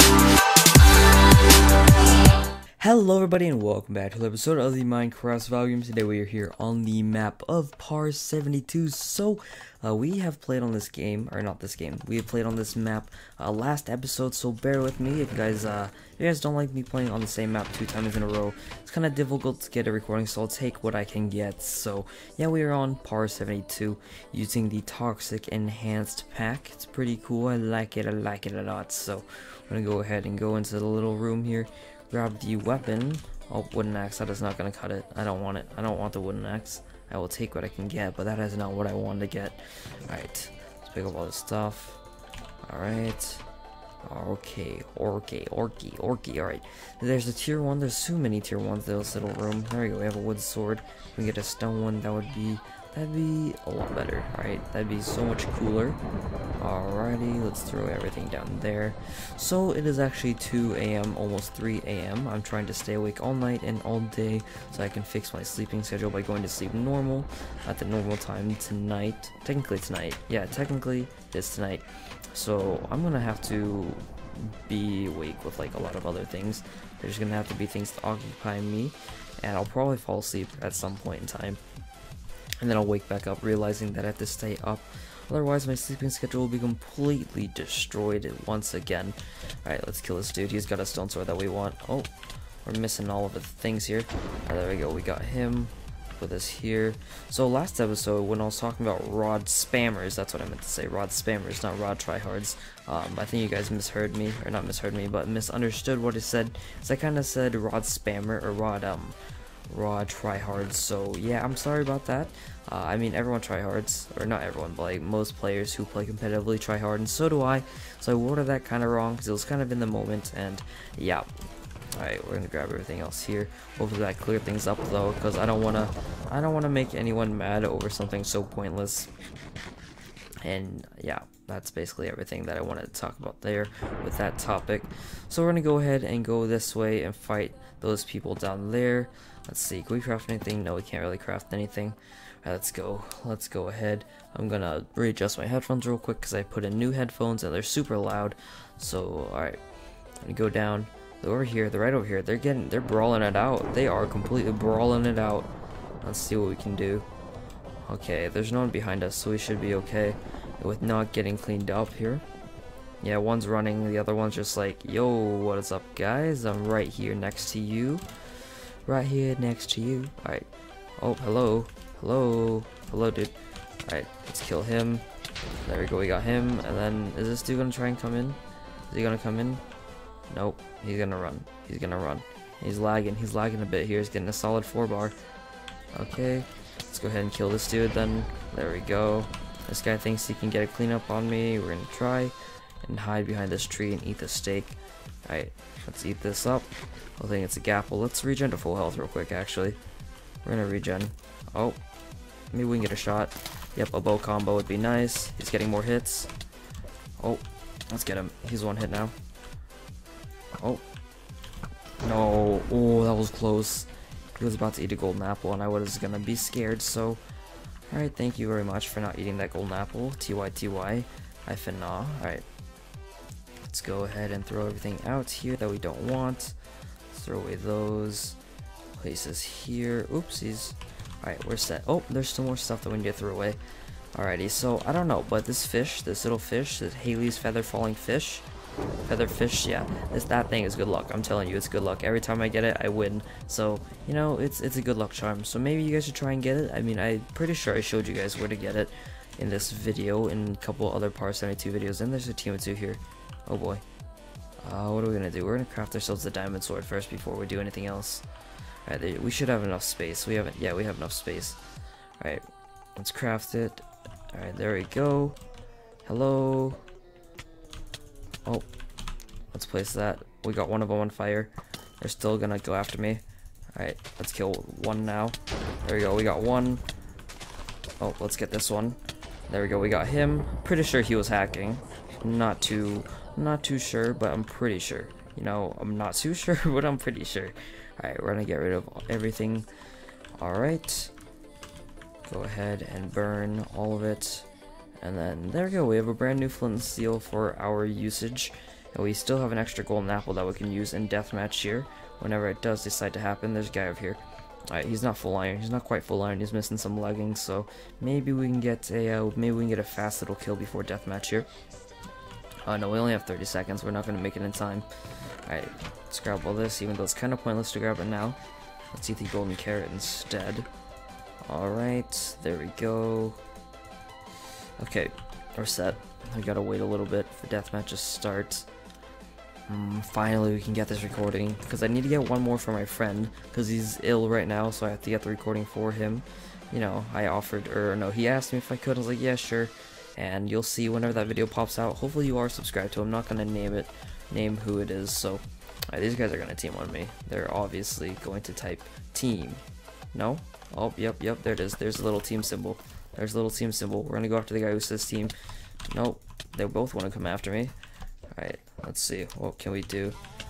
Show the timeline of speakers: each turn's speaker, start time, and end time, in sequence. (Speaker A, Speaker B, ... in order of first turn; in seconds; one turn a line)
Speaker A: 2.8-42.0
Speaker A: 42.7-43.5
Speaker A: 44.0-56.0
Speaker A: 56.6-81.6
Speaker A: 82.6-92.1
Speaker A: 92.7-109.2
Speaker A: 109.7-121.3
Speaker A: 122.0-129.1
Speaker A: 130.4-149.6
Speaker A: 150.2-155.5
Speaker A: 156.0-157.1
Speaker A: 157.8-162.2
Speaker A: 163.0-168.1
Speaker A: 168.9-175.1
Speaker A: 175.7-179.6
Speaker A: 180.3-185.2
Speaker A: 185.9-199.8
Speaker A: 200.4-201.8
Speaker A: 202.5-206.3
Speaker A: 207.2-209.1
Speaker A: 210.6-210.8
Speaker A: 212.0-217.2
Speaker A: 217.9-222.5
Speaker A: 223.6-226.6
Speaker A: 227.1-228.4
Speaker A: 229.0-233.6
Speaker A: 234.2-238.5
Speaker A: 239.1-253.8
Speaker A: 254.6-258.2
Speaker A: 258.9-261.6
Speaker A: 263.0-265.4
Speaker A: 266.1-266.8
Speaker A: 269.5-273.2
Speaker A: 273.8-276.8
Speaker A: 278.0-289.7
Speaker A: 290.4-291.1
Speaker A: 292.3-294.5
Speaker A: 295.0-311.5
Speaker A: 312.7-314.9
Speaker A: 315.5-318.4
Speaker A: 318.9-320.7
Speaker A: 321.5-323.4
Speaker A: 324.8-328.7
Speaker A: 329.7-349.6
Speaker A: 350.1-355.4
Speaker A: 355.9-357.8
Speaker A: 358.3-360.2